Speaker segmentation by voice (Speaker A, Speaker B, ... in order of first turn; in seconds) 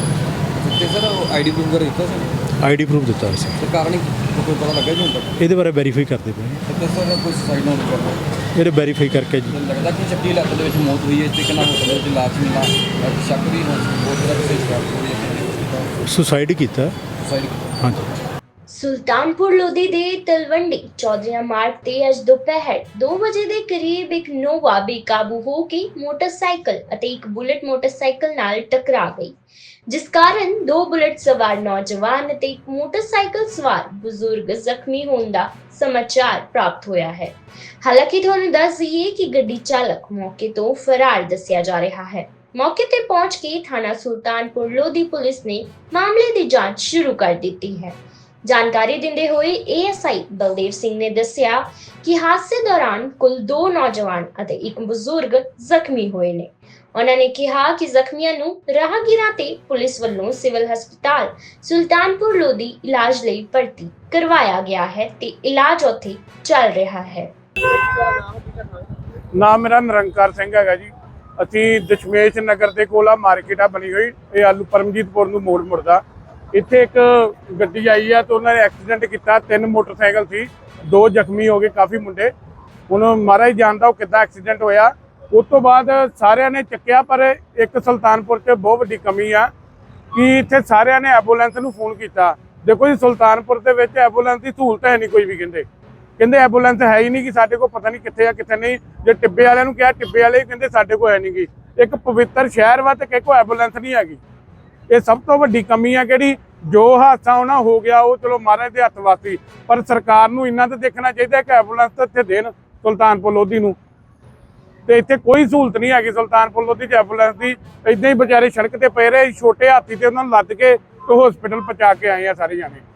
Speaker A: 0.6-2.3, 3.6-5.3, 6.7-8.2, 9.5-15.8, 17.2-17.6
Speaker B: 2.6-3.6, 5.4-6.6, 8.6-9.6, 16.1-16.9, 17.8-18.1
Speaker C: 18.7-29.3, 29.9-67.3
Speaker D: 69.3-70.9, 71.4-76.0, 76.5-82.3, 82.9-89.5, 90.1-95.6, 96.2-104.2, 104.9-113.8, 114.9-122.8